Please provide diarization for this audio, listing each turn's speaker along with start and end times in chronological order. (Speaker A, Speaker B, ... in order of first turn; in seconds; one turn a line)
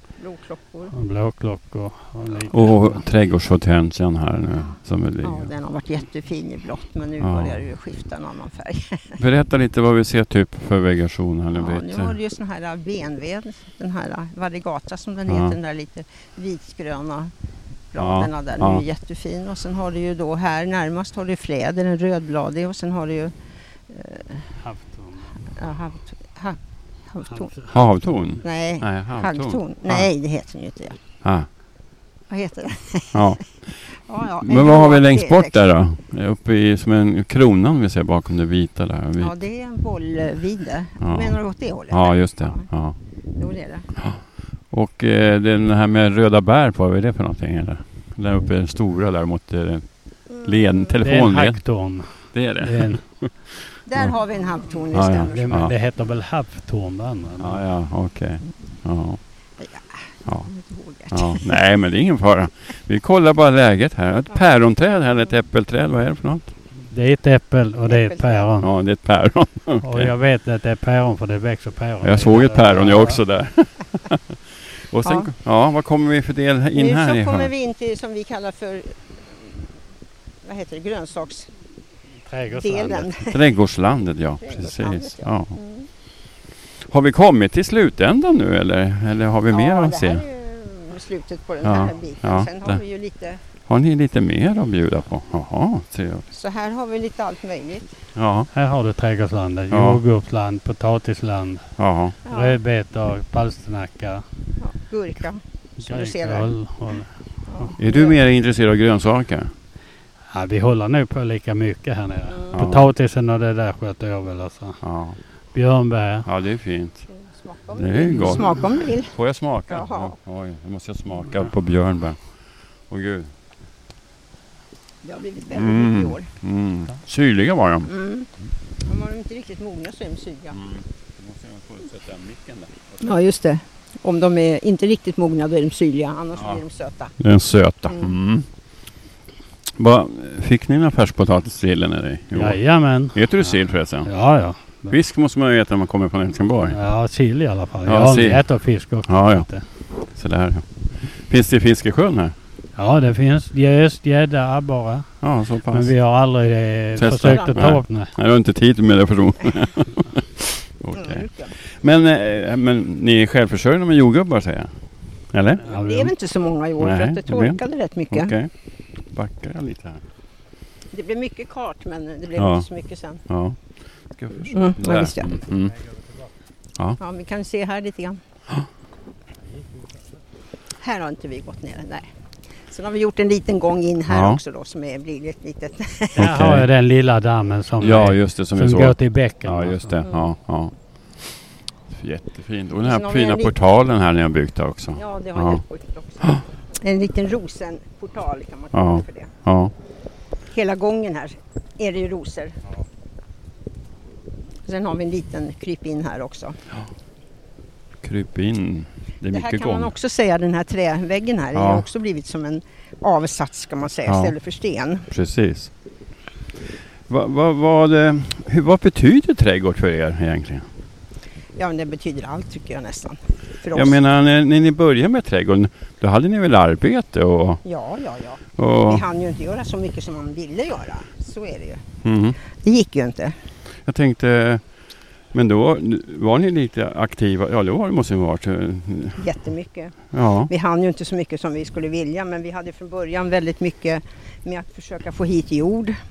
Speaker A: 0.2-0.9
Speaker B: 0.9-3.0
Speaker C: 2.5-5.5
Speaker A: 5.2-9.2
Speaker C: 7.2-7.6
Speaker C: 9.2-12.2
Speaker A: 11.6-17.3
Speaker C: 15.3-15.6
Speaker A: 17.9-23.3
Speaker C: 18.0-18.8
Speaker A: 23.9-24.5
Speaker B: 24.6-25.3
Speaker A: 25.5-26.6
Speaker A: 27.1-27.6
Speaker B: 27.3-27.7
Speaker C: 27.7-30.1
Speaker A: 28.4-31.0
Speaker C: 31.2-31.5
Speaker A: 32.3-33.4
Speaker C: 33.1-33.4
Speaker A: 34.1-35.6
Speaker C: 34.4-39.3
Speaker A: 39.2-42.7
Speaker C: 41.0-41.4
Speaker C: 41.9-43.0
Speaker A: 43.4-43.9
Speaker C: 44.0-49.9
Speaker A: 50.3-51.0
Speaker C: 50.4-51.6
Speaker B: 51.0-53.0
Speaker C: 52.3-54.1
Speaker A: 53.9-55.6
Speaker C: 54.9-55.7
Speaker B: 55.1-57.6
Speaker C: 57.4-59.2
Speaker A: 59.6-61.5
Speaker C: 61.1-66.5
Speaker B: 66.9-68.7
Speaker A: 67.9-68.5
Speaker C: 68.6-70.1
Speaker B: 69.8-73.2
Speaker C: 72.0-77.5
Speaker A: 75.0-75.3
Speaker A: 76.8-79.7
Speaker A: 80.4-81.5
Speaker B: 82.3-83.1
Speaker A: 82.6-83.5
Speaker C: 83.2-85.6
Speaker A: 84.4-85.9
Speaker C: 86.8-90.2
Speaker A: 89.5-93.4
Speaker C: 91.6-92.8
Speaker C: 93.7-96.2
Speaker A: 96.3-98.0
Speaker C: 98.2-98.5
Speaker B: 98.5-101.7
Speaker C: 99.7-100.0
Speaker C: 101.8-102.2
Speaker A: 102.2-102.6
Speaker B: 102.3-104.2
Speaker A: 104.6-106.5
Speaker B: 105.8-107.7
Speaker A: 107.5-108.2
Speaker C: 107.8-109.5
Speaker B: 110.3-114.8
Speaker A: 112.3-112.7
Speaker C: 112.5-112.9
Speaker C: 114.8-115.2
Speaker B: 115.5-116.3
Speaker C: 116.3-117.1
Speaker A: 117.1-119.2
Speaker C: 117.8-122.2
Speaker A: 119.7-120.1
Speaker C: 122.9-123.3
Speaker A: 125.0-126.3
Speaker C: 125.5-127.9
Speaker A: 127.9-128.3
Speaker A: 128.8-130.6
Speaker C: 130.6-133.1
Speaker A: 133.0-137.2
Speaker C: 137.2-138.5
Speaker A: 137.9-138.2
Speaker C: 139.8-142.6
Speaker B: 142.3-143.5
Speaker C: 143.1-144.1
Speaker B: 144.0-145.0
Speaker C: 144.9-146.8
Speaker B: 146.7-149.7
Speaker C: 147.9-148.4
Speaker C: 149.1-149.5
Speaker C: 150.1-152.3
Speaker B: 152.8-155.1
Speaker C: 155.2-155.9
Speaker B: 155.7-158.1
Speaker C: 157.0-164.8
Speaker A: 157.2-157.7
Speaker A: 160.9-161.6
Speaker C: 165.3-165.7
Speaker B: 165.6-166.1
Speaker A: 165.7-168.3
Speaker C: 166.8-167.6
Speaker C: 168.1-168.5
Speaker C: 169.1-170.0
Speaker A: 170.9-173.2
Speaker C: 172.4-172.7
Speaker C: 173.3-173.6
Speaker C: 174.1-175.8
Speaker A: 174.5-175.3
Speaker A: 177.0-178.2
Speaker A: 180.8-182.1
Speaker A: 182.7-186.3
Speaker C: 184.1-184.4
Speaker B: 186.2-190.0
Speaker C: 186.2-186.7
Speaker C: 187.8-190.7
Speaker A: 190.0-190.3
Speaker C: 191.9-195.6
Speaker A: 192.8-193.5
Speaker A: 195.0-199.3
Speaker C: 198.7-199.7
Speaker A: 200.5-202.6
Speaker A: 204.7-206.6
Speaker C: 208.0-209.9
Speaker A: 209.3-215.1
Speaker C: 211.6-211.9
Speaker C: 214.1-214.3
Speaker C: 215.1-215.7
Speaker C: 217.1-220.7
Speaker A: 221.6-224.0
Speaker C: 223.7-227.6
Speaker A: 227.7-231.8
Speaker C: 228.6-229.1
Speaker C: 232.0-232.4
Speaker A: 232.6-233.4
Speaker C: 233.9-234.6
Speaker C: 235.3-239.2
Speaker A: 239.2-246.0
Speaker C: 240.1-240.5